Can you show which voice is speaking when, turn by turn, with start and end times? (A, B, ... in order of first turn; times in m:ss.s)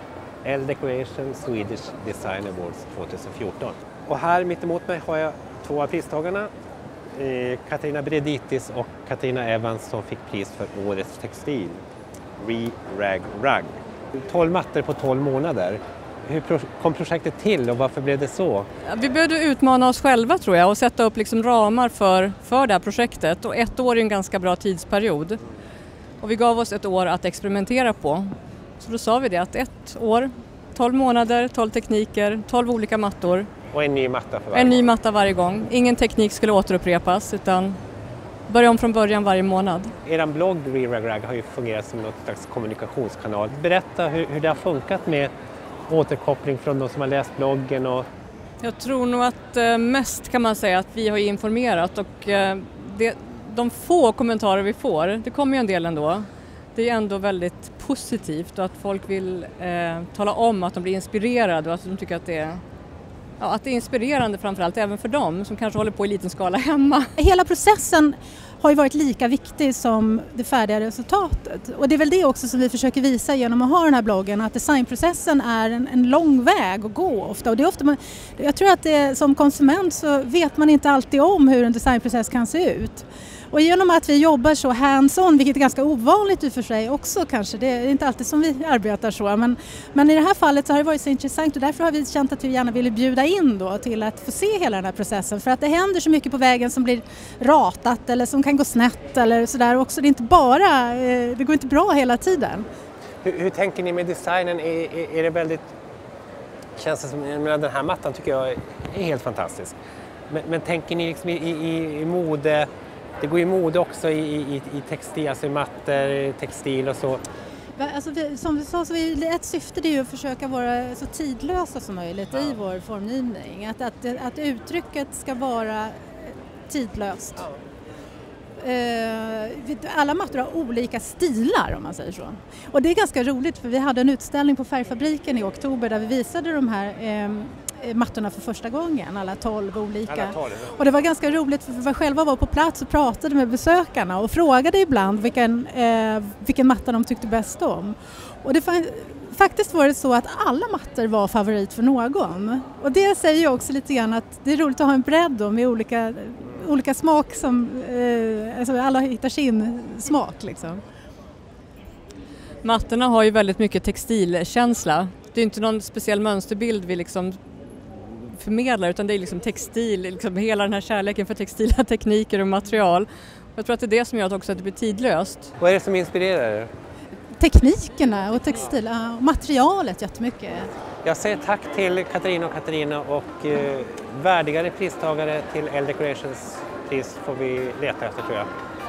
0:00.4-0:06.5 A
0:07.1-0:11.8 A
0:12.4-0:18.7 A
0:18.9-0:25.4 B
0:26.2-0:33.5 B
0:33.7-0:34.8 A
0:34.5-0:37.8 B
0:38.5-0:39.9 B
0:40.0-0:45.3 A
0:45.9-0:48.1 A
0:48.6-1:02.6 B
1:03.4-1:07.2 B
1:07.2-1:42.6 C
1:43.2-1:45.7 A
1:46.8-1:49.8 A
1:50.3-1:52.7 A
1:53.2-1:57.2 A
1:57.8-2:07.5 C
2:08.6-2:40.8 C
2:20.1-2:20.7 A
2:42.6-2:55.5 B
2:55.6-2:56.7 A
2:57.4-3:00.7 C
3:01.0-3:08.5 A